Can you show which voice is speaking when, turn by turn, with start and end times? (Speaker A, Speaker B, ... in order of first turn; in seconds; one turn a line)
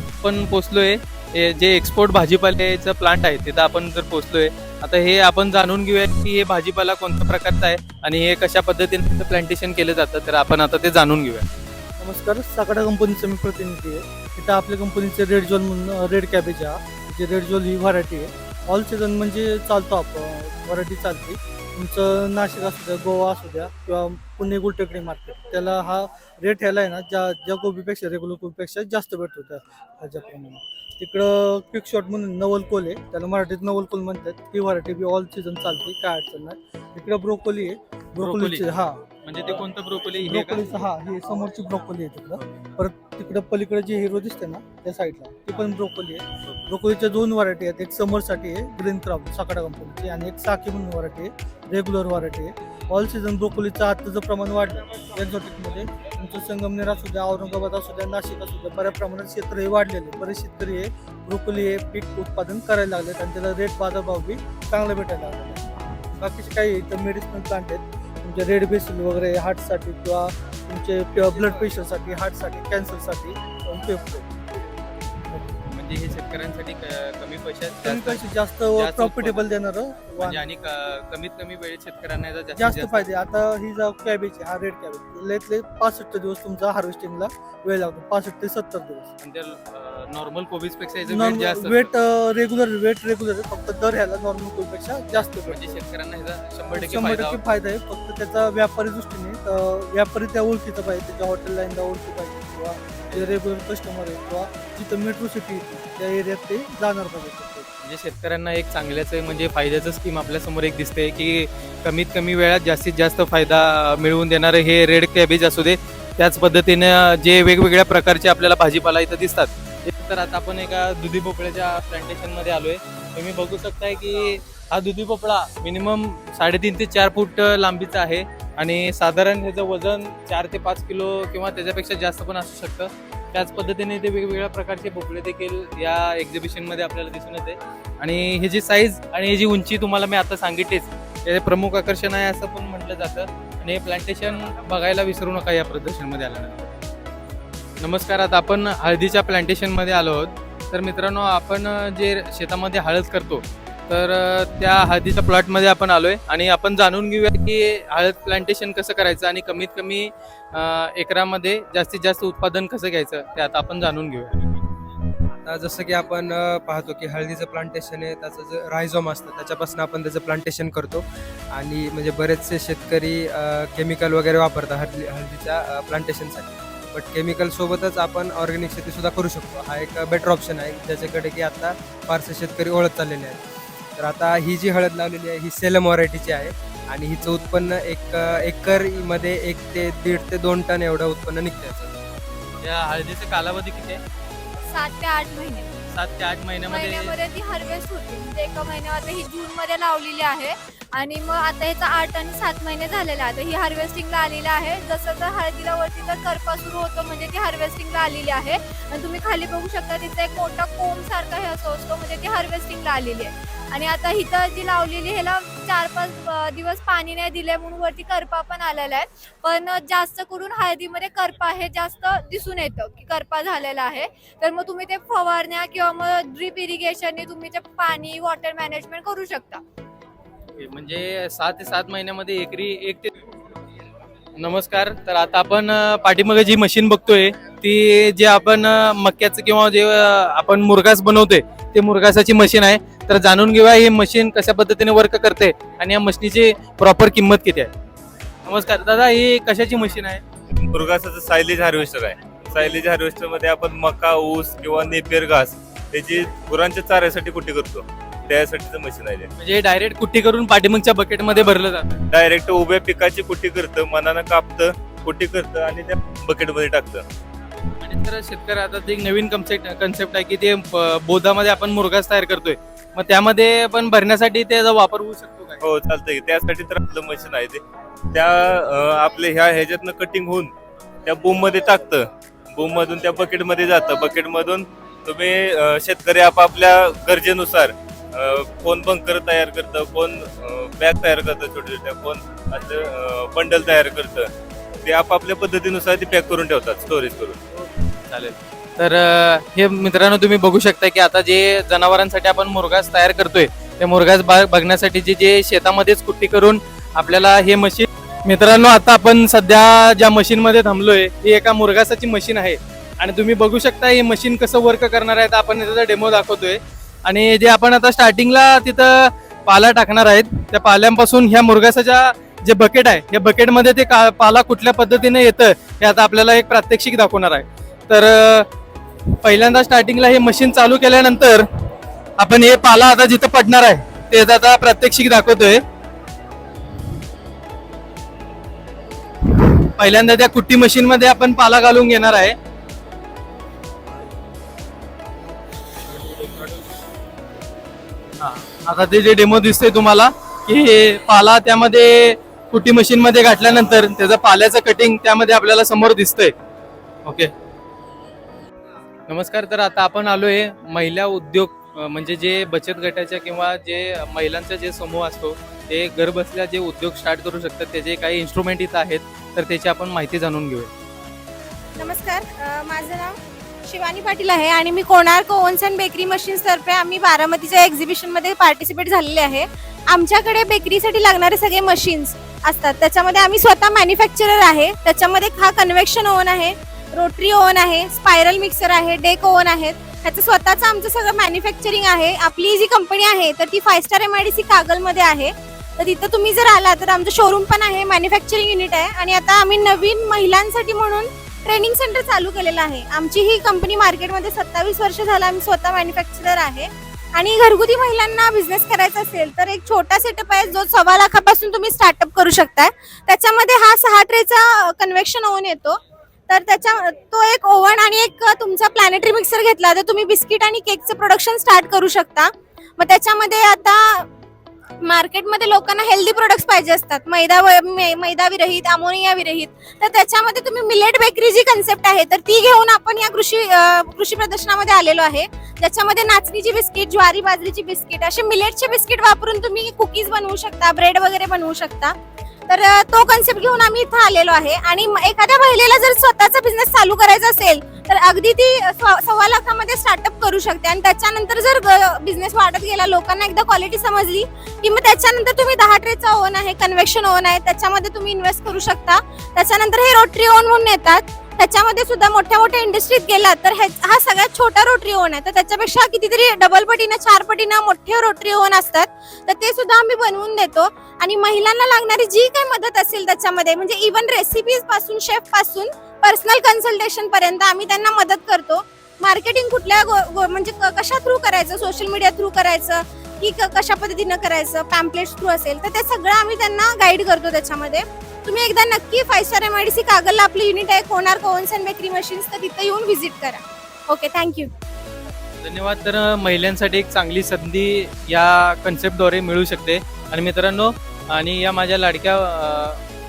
Speaker A: 0.2-11.5
Speaker B: 12.0-39.0
Speaker A: 38.2-40.8
Speaker B: 40.2-74.3
Speaker A: 75.7-83.2
Speaker B: 77.8-80.4
Speaker B: 82.5-89.1
Speaker A: 89.2-91.9
Speaker B: 91.1-95.8
Speaker A: 95.1-97.4
Speaker B: 96.7-107.7
Speaker A: 103.1-103.3
Speaker A: 107.8-146.7
Speaker A: 147.8-164.4
Speaker C: 165.4-183.4
Speaker C: 184.0-191.9
Speaker A: 192.6-194.0
Speaker D: 194.7-195.7
Speaker A: 195.9-197.2
Speaker D: 196.7-229.6
Speaker A: 230.6-233.1
Speaker A: 234.4-247.7
Speaker A: 248.4-250.2
Speaker E: 250.7-259.3
Speaker A: 259.4-262.0
Speaker E: 262.1-267.0
Speaker A: 267.8-275.6
Speaker E: 275.6-280.5
Speaker E: 281.0-294.3
Speaker E: 294.8-297.4
Speaker A: 298.1-328.5
Speaker A: 329.2-331.4
Speaker A: 332.2-335.6
Speaker A: 339.8-342.4
Speaker A: 346.1-346.5
Speaker A: 348.2-356.3
Speaker A: 357.0-357.3
Speaker A: 359.1-370.7
Speaker F: 371.8-424.1
Speaker F: 424.8-441.9
Speaker F: 442.5-494.5
Speaker A: 495.4-502.8